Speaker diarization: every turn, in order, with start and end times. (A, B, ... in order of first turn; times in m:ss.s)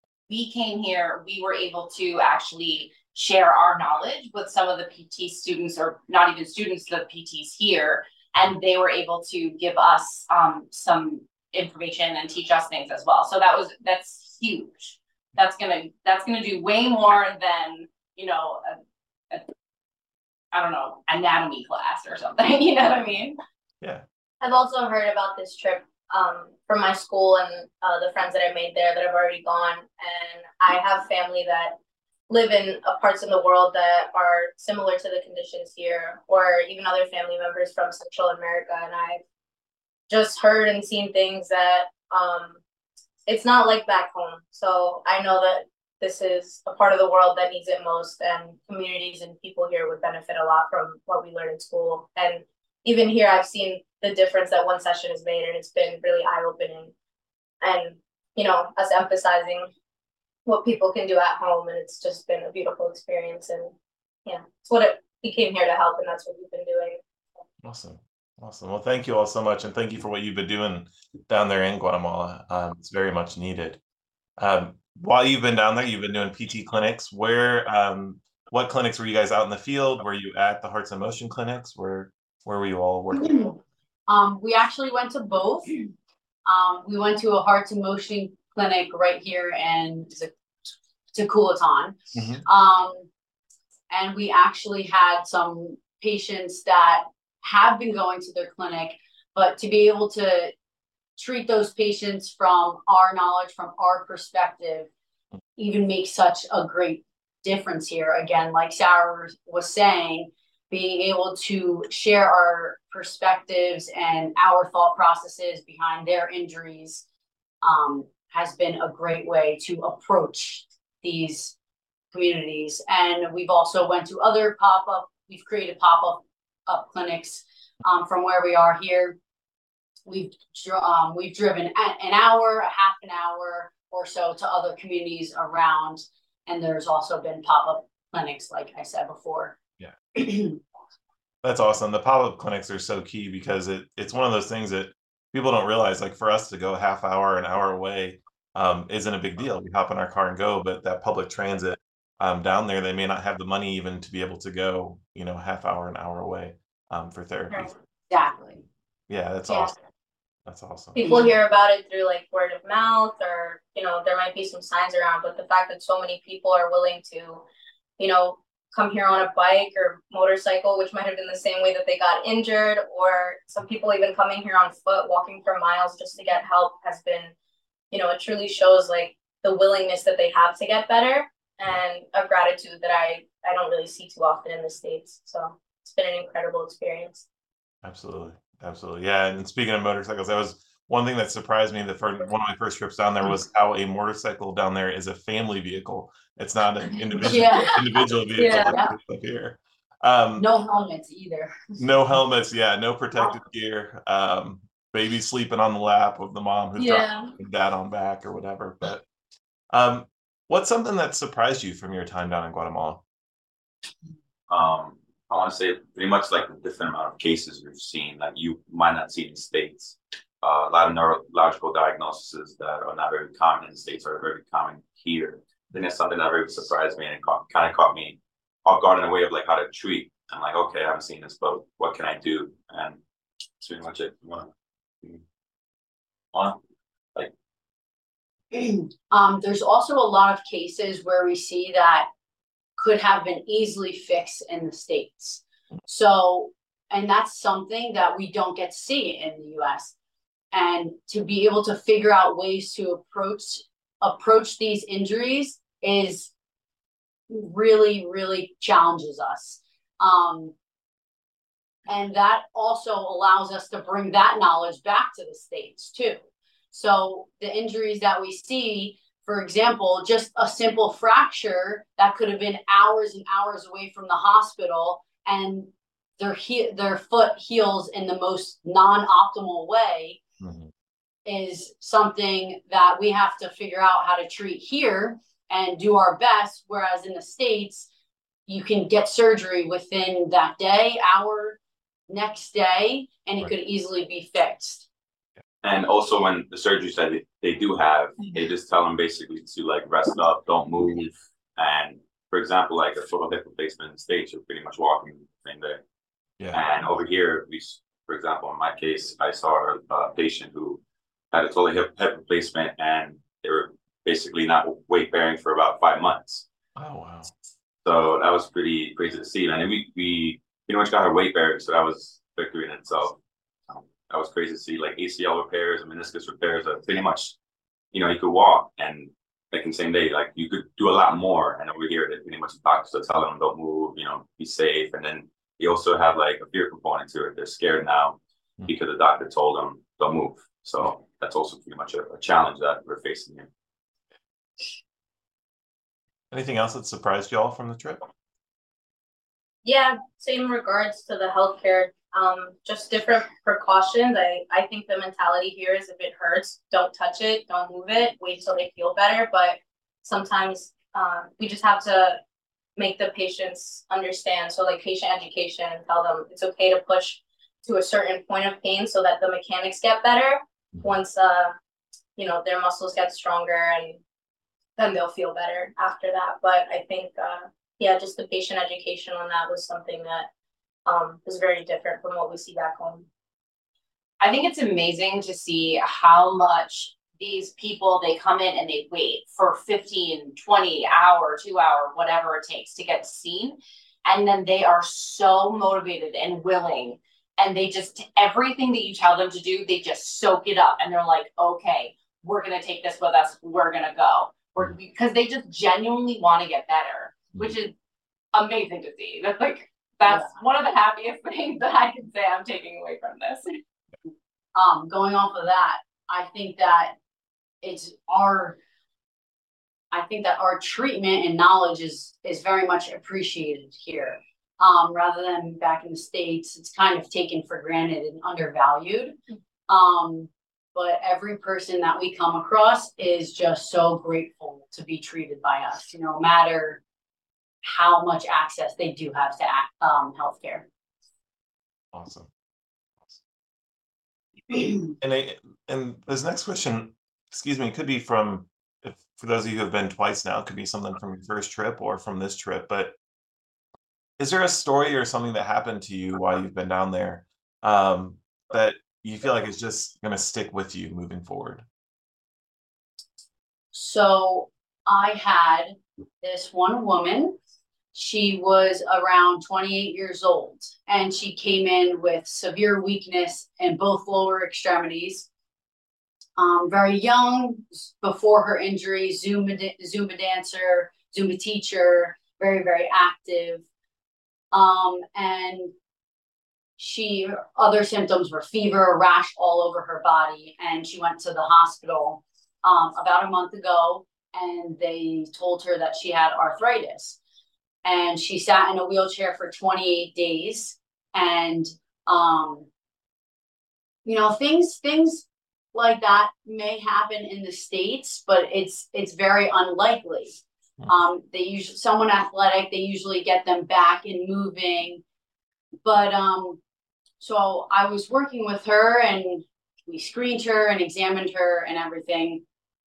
0:00.3-0:18.8 A
0:20.5-0:23.4 A
0:24.4-0:31.8 B
0:32.3-0:39.2 B
0:40.1-0:42.6 B
0:43.2-0:56.9 B
0:57.6-0:59.7 B
1:00.4-1:03.7 B
1:04.2-1:07.0 B
1:07.6-1:13.8 C
1:14.4-1:23.5 C
1:23.2-1:23.5 D
1:24.1-1:25.9 D
1:26.4-1:30.3 D
1:31.1-1:33.1 D
1:32.1-1:32.4 C
1:33.9-1:40.5 D
1:41.2-1:44.9 D
1:45.6-1:57.0 D
1:57.6-2:01.5 D
2:02.1-2:09.2 D
2:10.0-2:19.6 D
2:20.1-2:20.6 D
2:21.4-2:37.7 C
2:38.1-2:38.6 D
2:39.1-2:39.7 C
2:40.4-2:41.0 C
2:40.9-2:47.4 B
2:41.0-2:41.3 D
2:48.0-2:57.3 B
2:57.9-3:07.2 B
3:07.8-3:20.4 C
3:17.2-3:17.8 D
3:18.4-3:18.8 B
3:18.6-3:18.9 D
3:20.4-3:21.8 D
3:21.8-3:29.0 C
3:26.8-3:27.3 B
3:29.7-3:33.0 C
3:34.5-3:53.0 E
3:53.6-3:54.5 E
3:56.3-3:56.6 E
3:58.5-4:02.1 D
4:02.8-4:09.9 D
4:10.5-4:16.3 D
4:17.3-4:20.5 D
4:21.9-4:26.2 D
4:26.7-4:40.2 D
4:40.4-4:40.7 C
4:41.2-4:47.9 D
4:48.5-4:54.9 D
4:55.6-5:05.8 E
5:06.5-5:10.8 E
5:11.3-5:16.4 E
5:16.8-5:17.3 C
5:17.8-5:23.2 E
5:23.7-5:27.3 E
5:27.9-5:43.5 E
5:46.3-5:48.1 C
5:49.6-6:02.2 B
6:02.8-6:11.5 B
6:12.2-6:14.0 B
6:14.8-6:20.3 B
6:20.8-6:23.1 B
6:24.2-6:47.7 A
6:48.3-6:53.6 A
6:54.5-6:57.0 D
6:57.6-6:58.6 D
6:59.9-7:09.2 D
7:09.7-7:16.8 D
7:17.6-7:20.6 D
7:21.9-7:22.3 C
7:25.0-7:33.0 C
7:34.2-7:41.6 C
7:43.7-7:47.4 D
7:47.9-7:55.3 D
7:56.4-8:03.6 D
8:04.5-8:05.7 D
8:06.8-8:17.2 D
8:17.8-8:22.7 D
8:24.0-8:35.0 D
8:35.8-8:36.6 D
8:37.2-8:42.4 D